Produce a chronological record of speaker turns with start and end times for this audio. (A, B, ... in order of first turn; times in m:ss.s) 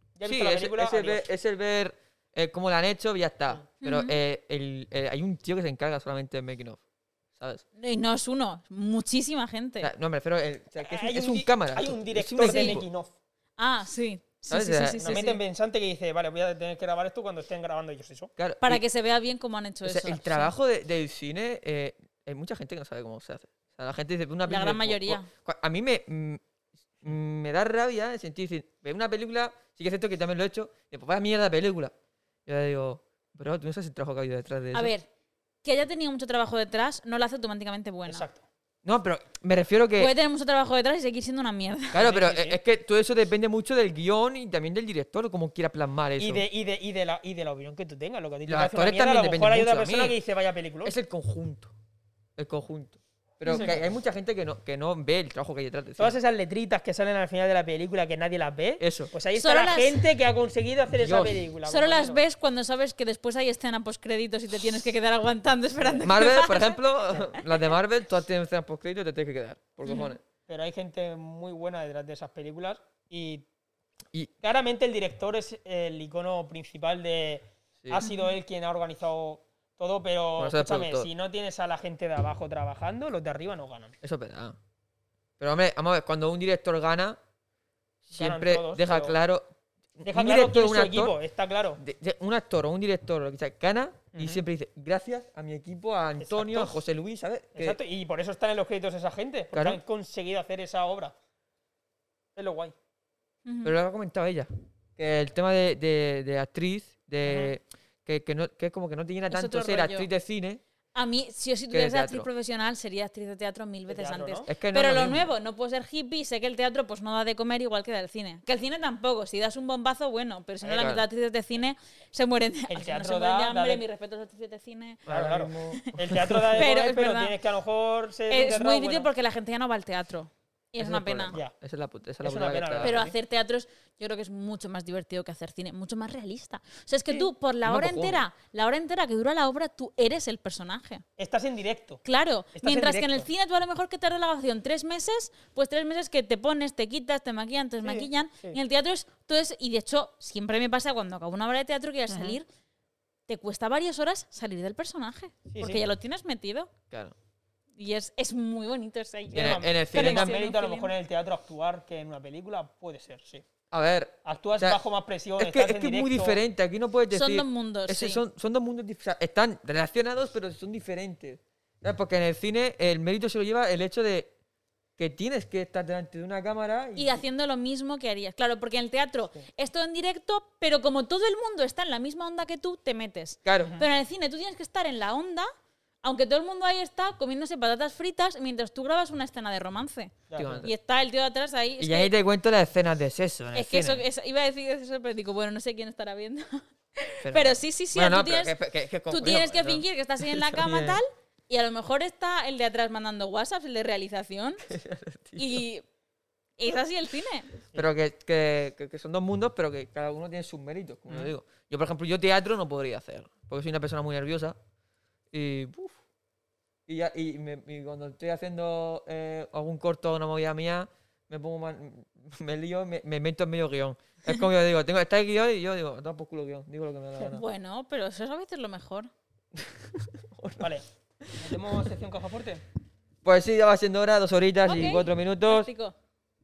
0:00.2-0:01.2 A
0:00.2-0:06.8 B
0:03.8-0:04.2 C
0:07.4-0:07.6 B
0:07.8-0:09.9 C
0:09.8-0:12.9 B
0:10.8-0:13.1 A
0:12.4-0:12.8 C
0:13.6-0:15.4 C
0:14.5-0:15.2 B
0:15.0-0:18.3 A
0:18.4-0:18.8 B
0:18.6-0:20.5 C
0:19.8-0:26.4 B
0:24.4-0:25.3 C
0:27.0-0:31.9 B
0:32.4-0:34.9 B
0:34.7-0:35.1 C
0:35.6-0:38.2 C
0:38.0-0:38.4 A
0:38.8-0:40.1 B
0:40.0-0:42.0 C
0:41.9-0:46.4 B
0:42.0-0:42.6 A
0:46.2-0:50.9 A
0:48.5-0:50.2 B
0:50.8-0:51.7 B
0:52.4-0:56.2 B
0:53.4-0:53.8 A
0:53.5-0:53.8 C
0:56.0-1:02.2 A
0:58.8-0:59.1 B
0:59.3-1:00.0 C
1:01.0-1:01.4 B
1:01.6-1:06.8 C
1:06.0-1:10.2 B
1:09.8-1:10.1 C
1:10.5-1:13.4 A
1:14.4-1:23.9 A
1:20.4-1:21.1 B
1:24.0-1:24.6 B
1:25.4-1:27.2 B
1:28.0-1:31.1 B
1:28.1-1:29.1 A
1:30.0-1:31.8 A
1:31.8-1:37.8 B
1:34.1-1:34.4 A
1:36.2-1:36.8 A
1:37.5-1:41.1 A
1:39.5-1:39.8 B
1:42.4-1:42.7 A
1:43.4-1:43.7 C
1:43.6-1:50.6 B
1:47.2-1:47.5 A
1:49.3-1:50.1 C
1:50.9-2:05.0 C
1:51.7-1:52.3 B
1:53.9-1:54.5 A
1:54.5-1:55.3 B
2:00.6-2:00.9 A
2:00.7-2:01.0 B
2:02.7-2:03.8 A
2:05.0-2:06.7 B
2:05.1-2:09.1 A
2:06.6-2:07.3 C
2:08.3-2:11.4 C
2:10.8-2:13.0 B
2:12.2-2:13.1 A
2:12.8-2:21.0 C
2:17.6-2:18.2 B
2:21.2-2:22.0 A
2:22.0-2:32.4 C
2:22.5-2:23.3 A
2:27.8-2:28.6 A
2:32.1-2:32.4 A
2:33.3-2:36.7 C
2:35.5-2:35.8 A
2:37.8-2:40.9 C
2:39.3-2:40.4 B
2:39.3-2:43.4 A
2:43.7-2:44.8 B
2:44.2-2:46.4 A
2:45.4-2:54.3 B
2:47.1-2:48.2 C
2:55.0-2:57.2 B
2:57.0-3:05.5 C
3:03.4-3:03.8 B
3:06.0-3:12.1 C
3:10.3-3:10.6 A
3:10.3-3:10.7 B
3:11.8-3:14.0 B
3:13.5-3:18.5 C
3:17.2-3:21.0 B
3:19.1-3:24.6 C
3:24.6-3:25.6 B
3:25.4-3:25.8 C
3:26.6-3:27.5 C
3:27.7-3:34.6 B
3:35.3-3:36.0 B
3:36.9-3:47.4 B
3:47.3-3:49.1 C
3:49.5-3:51.5 B
3:50.6-3:50.8 A
3:51.4-3:52.6 A
3:53.2-3:55.7 B
3:54.6-3:55.9 C